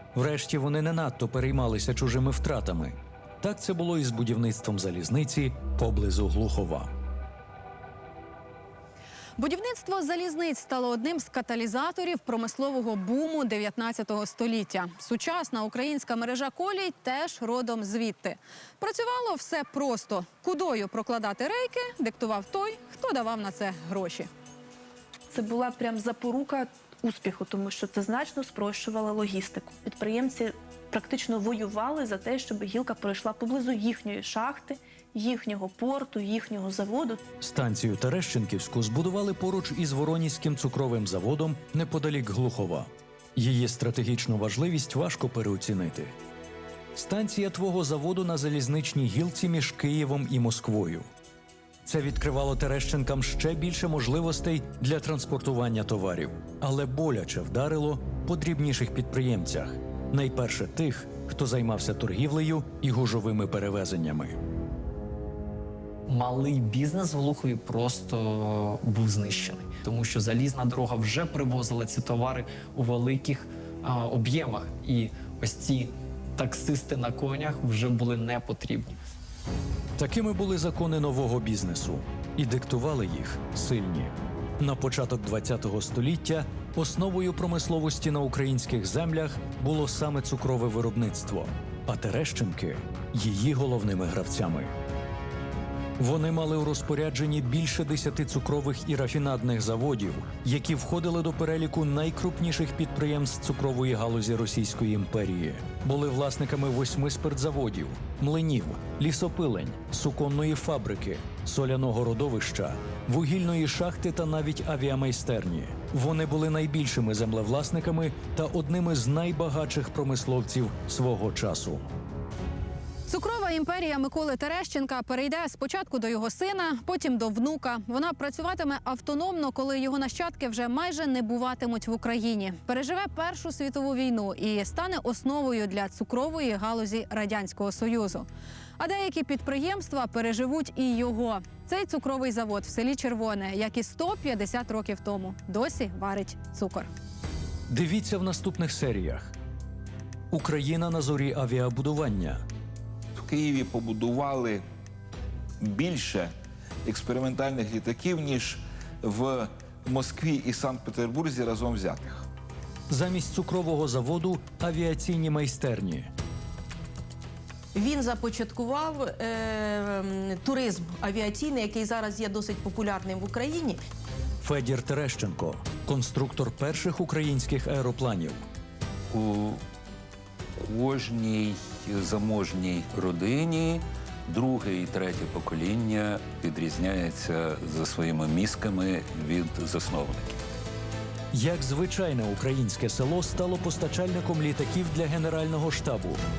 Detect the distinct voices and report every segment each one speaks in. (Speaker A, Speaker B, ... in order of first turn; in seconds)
Speaker A: 0.1-6.9, 37.4-46.2, 46.9-51.1, 51.8-64.4, 80.0-94.7, 96.0-121.8, 147.7-149.3, 150.3-152.4, 162.9-166.1, 174.4-178.4, 191.3-196.2
Speaker B: 9.4-24.3, 123.1-138.3, 138.8-146.9
Speaker C: 25.3-37.2
Speaker D: 66.1-79.0
Speaker E: 153.1-154.6, 155.6-156.3, 156.8-162.3
Speaker F: 167.7-173.8
Speaker G: 179.1-179.6, 180.6-190.4